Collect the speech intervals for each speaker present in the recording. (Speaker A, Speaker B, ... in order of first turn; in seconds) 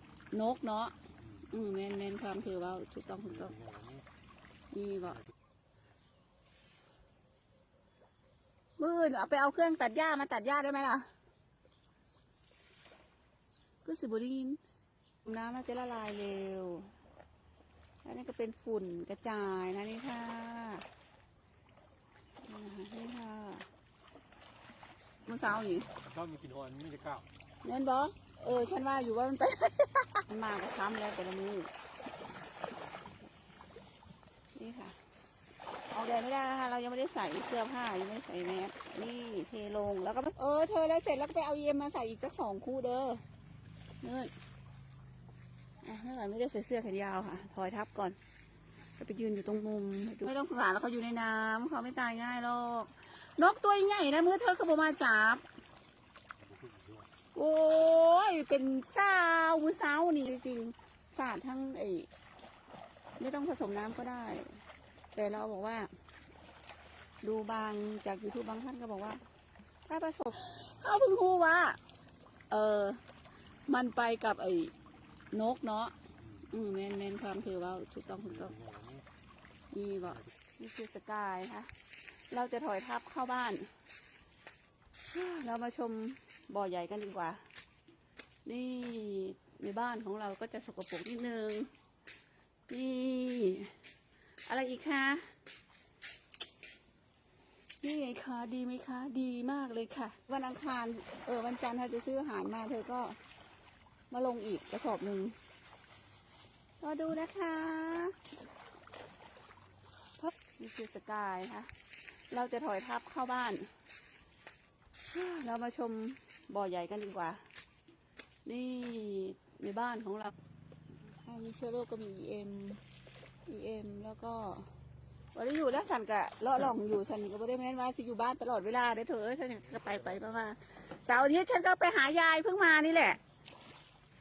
Speaker A: 0.3-0.9, 1.4-3.5, 4.7-5.2, 8.8-11.1, 13.8-14.6, 15.2-16.9, 18.0-20.9, 22.4-23.7, 25.2-25.9, 27.6-31.7, 34.5-35.0, 35.9-43.2, 44.0-44.3, 45.8-48.2, 49.0-55.4, 57.3-62.1, 63.2-64.6, 65.1-65.9, 67.2-69.2, 69.9-71.8, 72.5-73.0, 73.7-74.7, 75.3-75.9, 76.5-78.5, 79.7-81.7, 82.3-83.7, 85.1-87.4, 88.4-91.7, 92.7-93.8, 94.5-95.3, 97.8-103.2, 104.1-105.4, 106.8-108.2, 110.2-111.7, 112.3-113.7, 115.1-117.4, 118.4-120.3, 121.2-122.8, 123.5-124.7, 125.3-133.2
Speaker B: 3.5-4.0, 26.1-27.2, 56.4-57.1, 78.5-79.0